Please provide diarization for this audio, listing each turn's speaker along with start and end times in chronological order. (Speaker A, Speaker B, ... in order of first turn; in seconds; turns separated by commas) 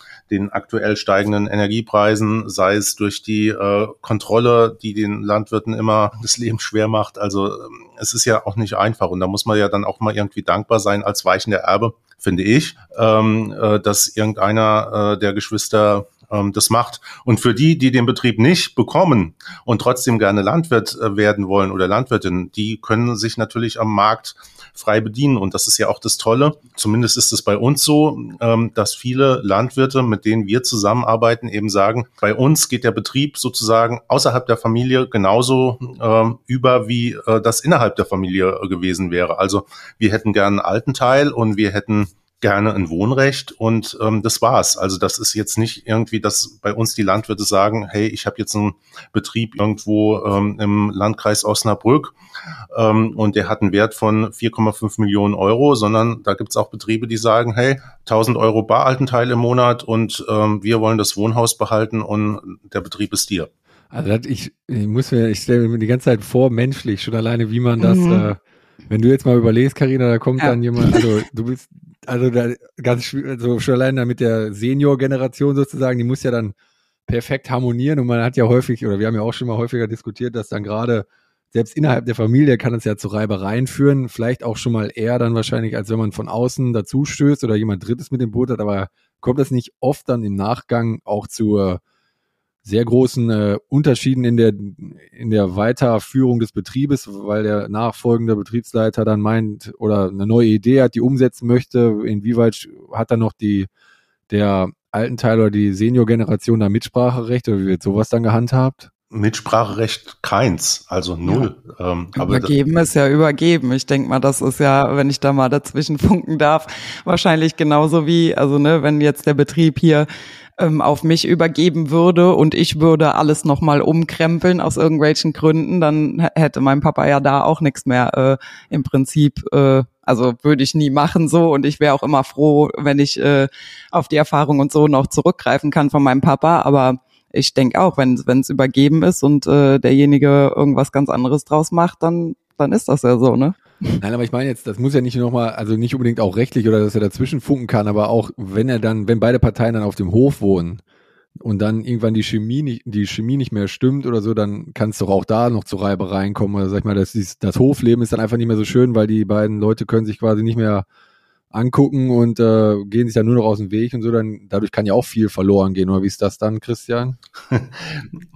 Speaker A: 0.3-52.1, Speaker A: 52.7-63.5, Speaker B: 63.9-76.5, Speaker C: 67.8-68.3, Speaker C: 70.4-71.1, Speaker B: 77.1-91.8, Speaker B: 92.7-103.7, Speaker B: 104.3-108.9, Speaker A: 109.1-112.5, Speaker C: 112.2-120.1, Speaker C: 120.6-144.0, Speaker B: 144.0-150.8, Speaker B: 151.4-160.8, Speaker B: 161.5-167.2, Speaker A: 167.5-168.1